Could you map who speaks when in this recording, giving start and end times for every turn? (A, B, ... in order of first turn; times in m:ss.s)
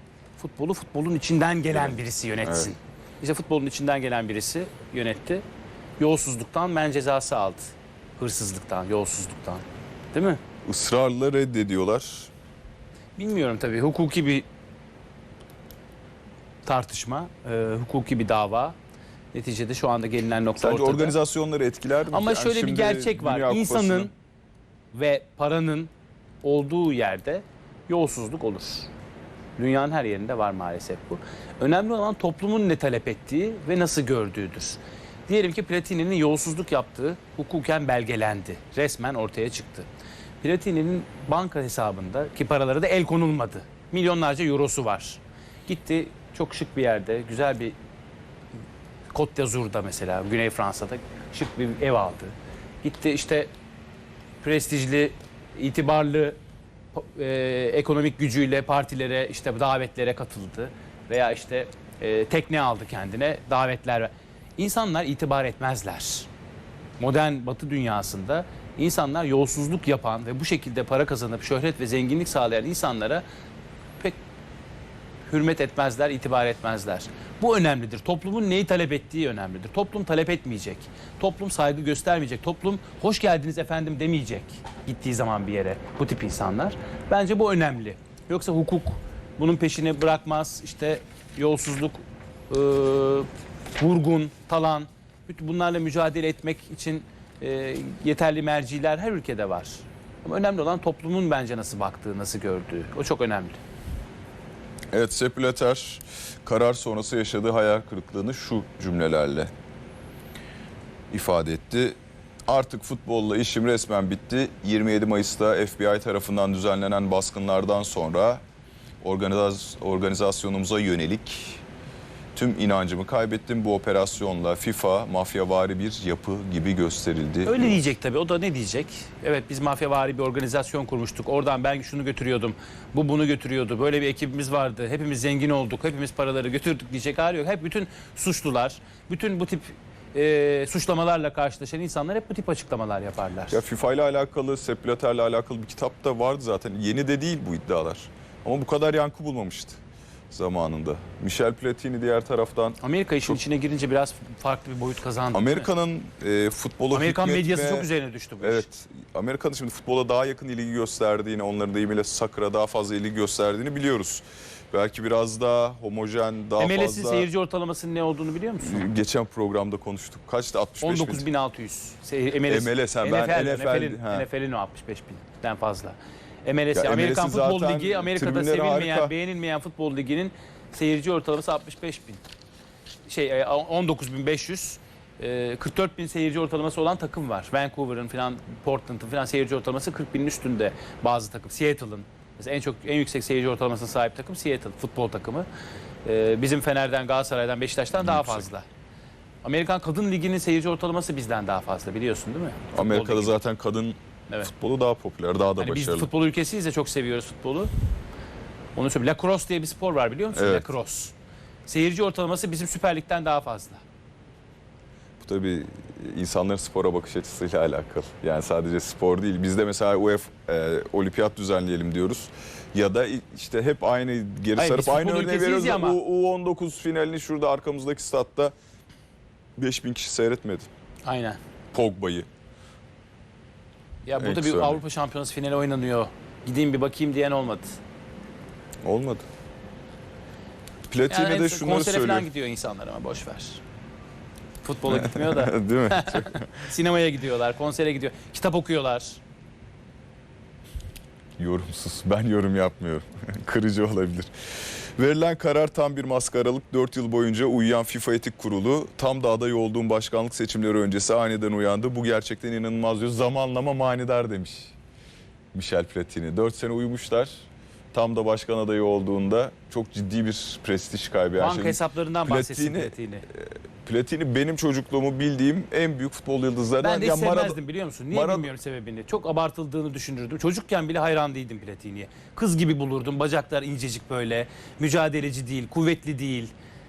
0:00.4-0:05.4 A
0:01.7-0:02.7 B
0:06.0-0:10.4 A
0:10.6-0:12.3 B
0:13.2-0:14.4 A
0:16.6-0:18.8 A
0:19.3-0:21.2 A
0:20.6-0:24.1 B
0:22.1-0:24.1 A
0:24.9-0:25.9 A
0:26.4-0:28.9 A
0:29.6-0:39.9 A
0:40.4-0:47.7 A
0:49.1-0:53.5 A
0:54.4-0:56.4 A
0:56.9-1:06.3 A
1:07.0-1:13.2 A
1:15.3-1:43.6 A
1:44.9-1:49.5 B
1:51.1-1:52.0 B
1:52.5-1:58.4 B
1:59.0-2:01.6 B
2:02.3-2:07.8 B
2:07.4-2:23.6 A
2:23.5-2:33.4 B
2:32.8-2:35.7 A
2:35.3-2:37.9 B
2:36.9-2:38.7 A
2:38.4-2:47.3 B
2:46.6-2:48.8 A
2:48.6-2:51.3 B
2:50.8-3:02.2 A
2:52.4-2:54.2 B
2:56.7-2:59.1 B
3:03.0-3:15.4 A
3:16.0-3:18.6 A
3:18.0-3:18.4 B
3:19.4-3:23.4 A
3:22.7-3:26.1 B
3:25.6-3:27.7 A
3:28.7-3:31.1 A
3:30.3-3:30.7 B
3:31.7-3:33.8 A
3:35.2-3:48.5 B
3:44.6-3:46.0 A
3:49.6-3:50.7 B
3:51.0-3:51.4 A
3:51.7-3:52.3 B
3:54.0-3:57.8 A
3:54.2-3:54.8 B
3:58.8-3:59.2 B
4:00.9-4:02.3 B
4:01.1-4:03.6 A
4:04.6-4:09.2 A
4:04.9-4:06.5 B
4:11.4-4:14.3 B
4:15.0-4:24.7 B
4:25.5-4:38.5 B
4:31.4-4:33.2 A
4:36.8-4:46.5 A